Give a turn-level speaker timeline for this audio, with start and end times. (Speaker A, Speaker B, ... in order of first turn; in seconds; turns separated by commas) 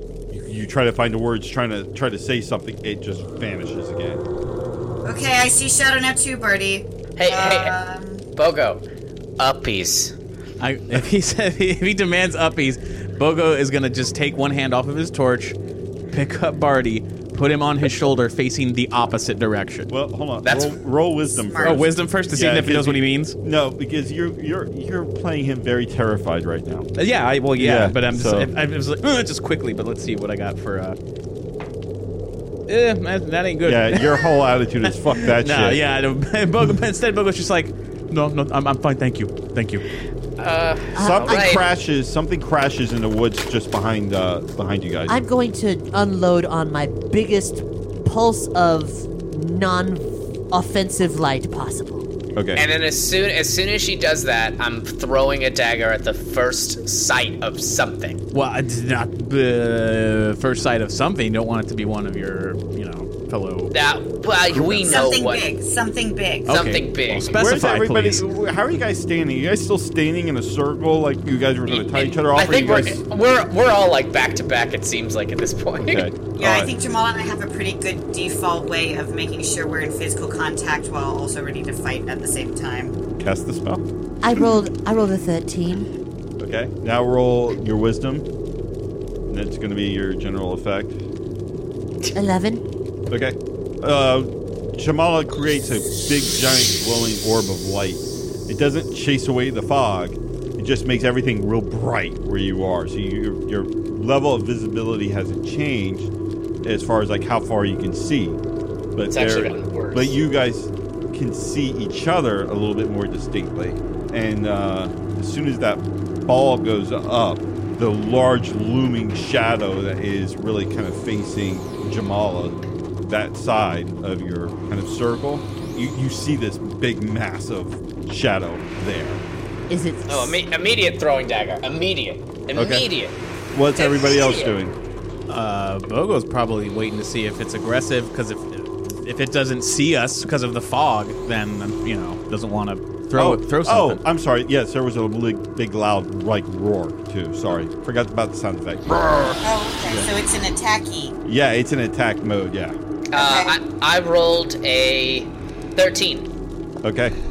Speaker A: 0.3-4.2, Speaker B: 5.0-8.2, Speaker C: 7.2-7.8, Speaker C: 8.3-8.8, Speaker C: 9.4-10.1, Speaker D: 10.6-15.6, Speaker D: 16.1-19.9, Speaker A: 19.9-26.9, Speaker C: 20.4-20.8, Speaker B: 21.3-21.9, Speaker D: 21.6-23.4, Speaker D: 26.9-31.0, Speaker A: 27.5-28.5, Speaker D: 32.7-39.8, Speaker A: 33.6-35.8, Speaker C: 40.4-41.7, Speaker E: 41.0-41.5, Speaker A: 41.0-45.2, Speaker E: 45.1-52.1, Speaker A: 52.3-52.6, Speaker C: 52.5-58.2, Speaker D: 58.3-63.7, Speaker C: 63.7-65.5, Speaker B: 64.9-66.6, Speaker D: 66.5-68.2, Speaker C: 66.5-67.4, Speaker A: 67.3-73.0, Speaker C: 71.7-76.1, Speaker A: 75.8-76.7, Speaker B: 76.4-83.0, Speaker A: 83.2-83.8, Speaker E: 84.2-85.9, Speaker A: 86.4-88.2, Speaker A: 89.3-91.0, Speaker E: 92.1-92.6, Speaker A: 93.1-106.1, Speaker A: 106.6-108.4, Speaker A: 108.9-129.2, Speaker C: 109.1-110.2, Speaker E: 129.7-130.4, Speaker C: 130.1-133.1, Speaker A: 132.5-132.9, Speaker A: 133.5-134.7, Speaker C: 133.7-134.6, Speaker D: 135.3-144.0, Speaker A: 143.1-150.1, Speaker B: 149.4-151.2, Speaker A: 151.2-152.8, Speaker C: 153.1-156.3, Speaker B: 153.1-153.6, Speaker A: 156.8-157.1